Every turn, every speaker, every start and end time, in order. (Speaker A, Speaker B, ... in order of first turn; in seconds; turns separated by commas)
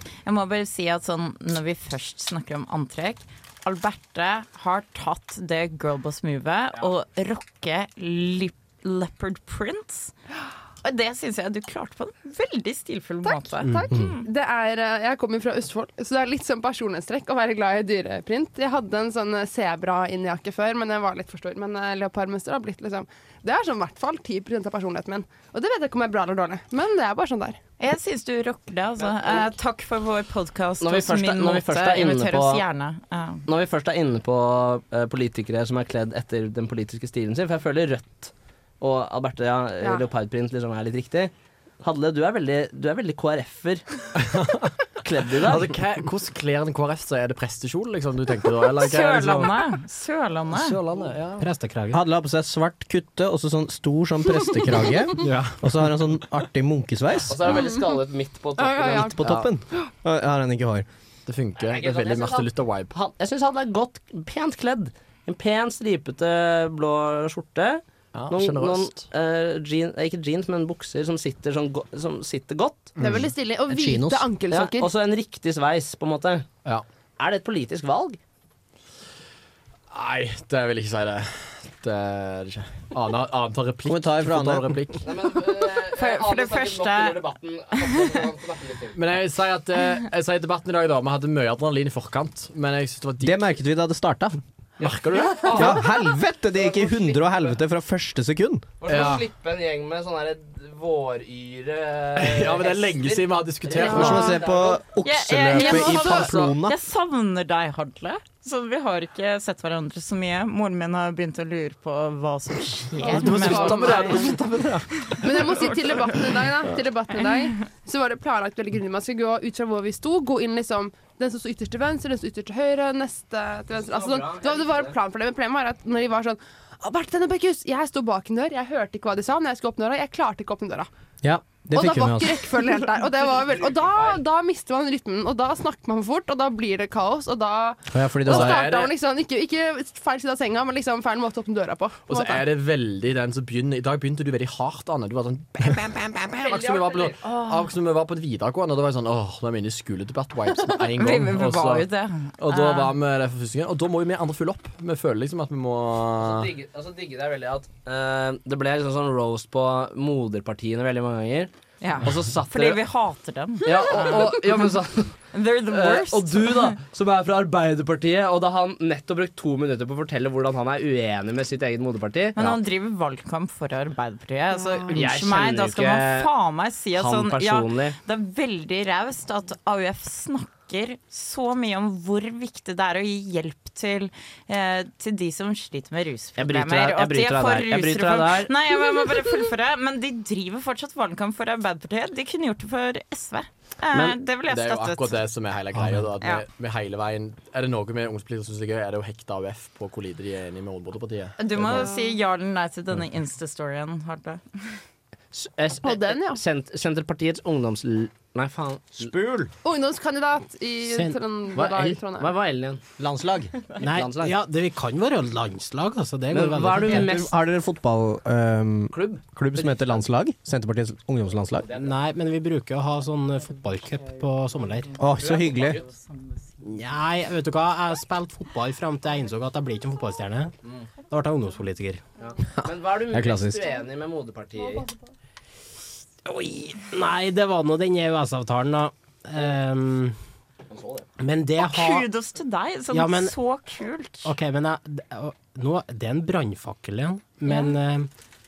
Speaker A: 0.3-10.1, Speaker A: 10.8-14.3, Speaker B: 13.3-27.6, Speaker C: 13.7-13.9, Speaker A: 27.8-33.5, Speaker D: 29.1-29.5, Speaker D: 30.8-32.6, Speaker D: 33.5-43.9, Speaker B: 39.8-40.1, Speaker E: 44.2-44.7, Speaker D: 45.0-45.8, Speaker E: 45.4-49.6, Speaker A: 48.8-50.8, Speaker E: 50.5-51.5, Speaker C: 51.4-52.0, Speaker F: 51.9-57.6, Speaker E: 55.2-55.6, Speaker D: 57.3-59.5, Speaker B: 57.4-58.0, Speaker B: 58.6-59.2, Speaker F: 59.0-60.9, Speaker E: 61.3-62.9, Speaker D: 61.6-73.0, Speaker E: 68.1-69.0, Speaker B: 73.0-74.9, Speaker F: 73.7-74.3, Speaker D: 74.5-76.5, Speaker D: 77.2-78.2, Speaker E: 79.9-85.1, Speaker F: 83.9-84.9, Speaker D: 85.0-89.0, Speaker A: 85.9-88.0, Speaker E: 89.0-93.4, Speaker F: 93.2-94.4, Speaker D: 94.8-97.6, Speaker E: 94.8-95.8, Speaker F: 95.5-98.7, Speaker D: 98.8-104.8, Speaker E: 98.9-99.3, Speaker E: 102.2-104.3, Speaker B: 103.8-104.3, Speaker F: 103.8-106.8, Speaker A: 105.0-114.4, Speaker B: 113.0-114.4, Speaker E: 113.1-115.5, Speaker B: 115.2-130.9, Speaker D: 123.7-125.0, Speaker F: 131.2-132.5, Speaker B: 131.7-142.4, Speaker D: 133.4-134.2, Speaker F: 137.9-138.6, Speaker E: 138.3-138.9, Speaker E: 142.1-156.5, Speaker D: 146.4-147.2, Speaker A: 151.0-152.9, Speaker D: 156.2-161.5, Speaker A: 161.8-164.4, Speaker D: 162.0-162.8, Speaker D: 163.6-165.2, Speaker A: 165.3-166.8, Speaker D: 165.7-172.6, Speaker A: 172.4-195.2, Speaker D: 174.9-176.3, Speaker D: 176.9-178.0, Speaker D: 186.4-188.5, Speaker D: 193.9-194.2, Speaker E: 194.5-201.9, Speaker A: 196.2-196.4, Speaker A: 201.4-204.8, Speaker D: 205.3-209.1, Speaker B: 205.8-206.4, Speaker F: 209.0-209.5, Speaker B: 209.6-212.3, Speaker C: 210.9-211.2, Speaker D: 211.5-212.8, Speaker F: 213.0-213.6, Speaker C: 213.8-217.1, Speaker D: 213.8-214.4, Speaker D: 216.3-217.3, Speaker F: 216.8-221.7, Speaker D: 218.9-220.1, Speaker D: 221.6-222.0, Speaker C: 221.7-225.0, Speaker A: 223.5-226.7, Speaker F: 225.0-225.8, Speaker D: 225.0-225.9, Speaker C: 226.6-230.5, Speaker C: 231.1-232.0, Speaker D: 232.2-234.9, Speaker F: 233.1-233.7, Speaker B: 234.6-234.9, Speaker C: 236.3-240.2, Speaker D: 240.7-241.1, Speaker C: 241.2-242.1, Speaker A: 241.6-244.3, Speaker C: 242.9-243.4, Speaker C: 244.2-248.1, Speaker A: 247.5-247.7